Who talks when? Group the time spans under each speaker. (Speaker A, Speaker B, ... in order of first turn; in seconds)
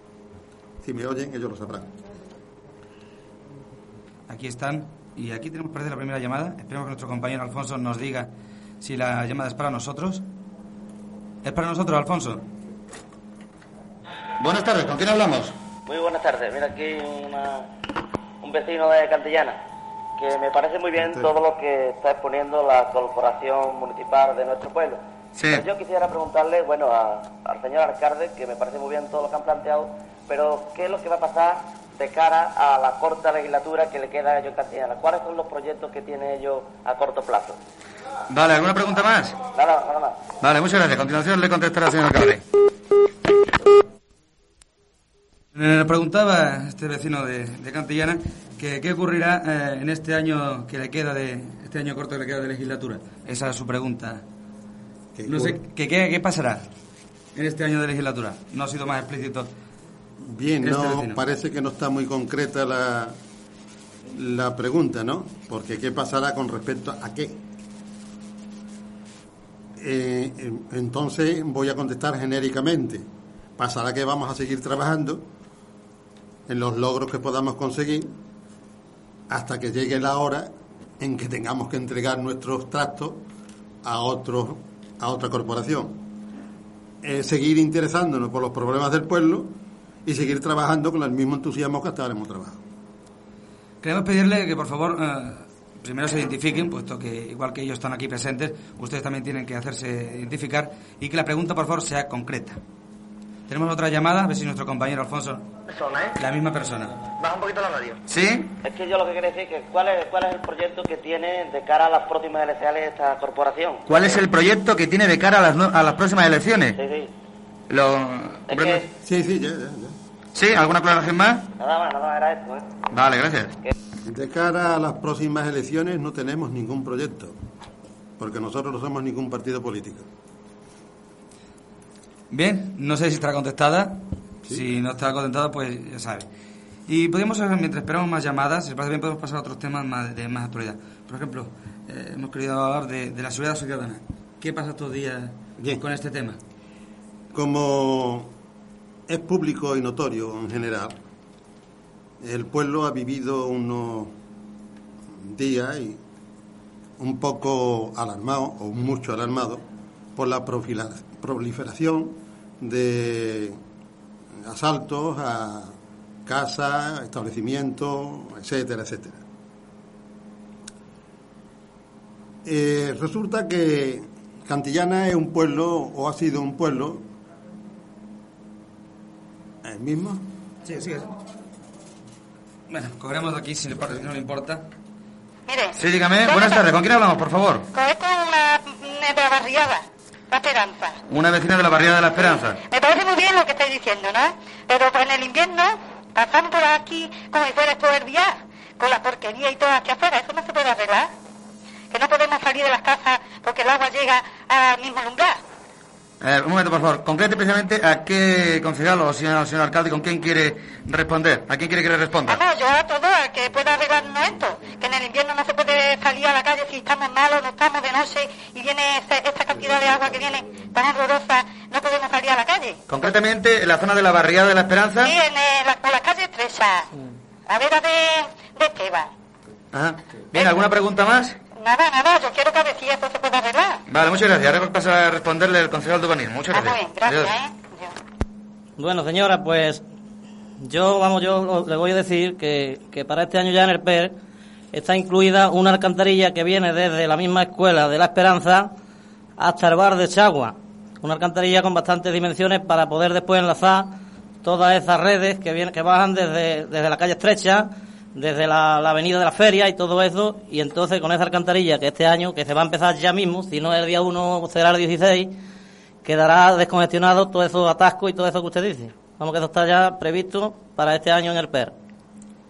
Speaker A: 0.8-1.9, 55.1-55.6, 60.2-63.2, 64.1-67.4, 69.8-73.0, 73.6-75.2, 76.5-78.1, 79.3-83.2, 83.8-86.0, 87.0-89.5, 90.0-92.6, 119.0-120.0, 124.0-127.3, 128.2-130.1, 147.3-148.3, 149.1-150.9, 152.2-154.1, 155.2-156.0, 157.0-159.6, 160.2-163.6, 164.4-169.2, 172.4-177.0, 179.6-180.2
Speaker B: 4.3-8.3, 8.8-10.2, 11.4-12.4, 14.4-15.5, 25.4-25.6, 38.3-39.4, 40.4-42.4, 45.5-54.2, 55.3-56.6, 57.3-59.5, 60.6-61.2, 93.8-102.6, 103.5-105.4, 106.0-106.9, 108.1-108.5, 113.9-116.8, 117.7-118.8, 120.3-121.4, 122.9-123.5, 132.3-136.2, 136.9-146.4, 180.6-181.1, 182.7-184.7, 185.8-187.6, 191.1-192.6, 206.2-212.4, 222.9-225.1, 229.7-231.3, 233.9-237.3
Speaker C: 15.8-17.7, 18.4-19.6, 20.2-37.6, 39.5-40.2, 108.6-113.9, 116.8-117.1, 118.5-118.8, 121.6-122.6
Speaker D: 185.5-186.6, 187.7-191.0, 192.7-201.1, 201.9-205.4, 212.3-222.8, 225.0-226.9, 227.4-229.1, 231.6-233.8, 236.5-237.9
Speaker E: 238.8-239.8, 240.6-244.1, 244.7-248.7, 249.4-265.3, 266.0-271.7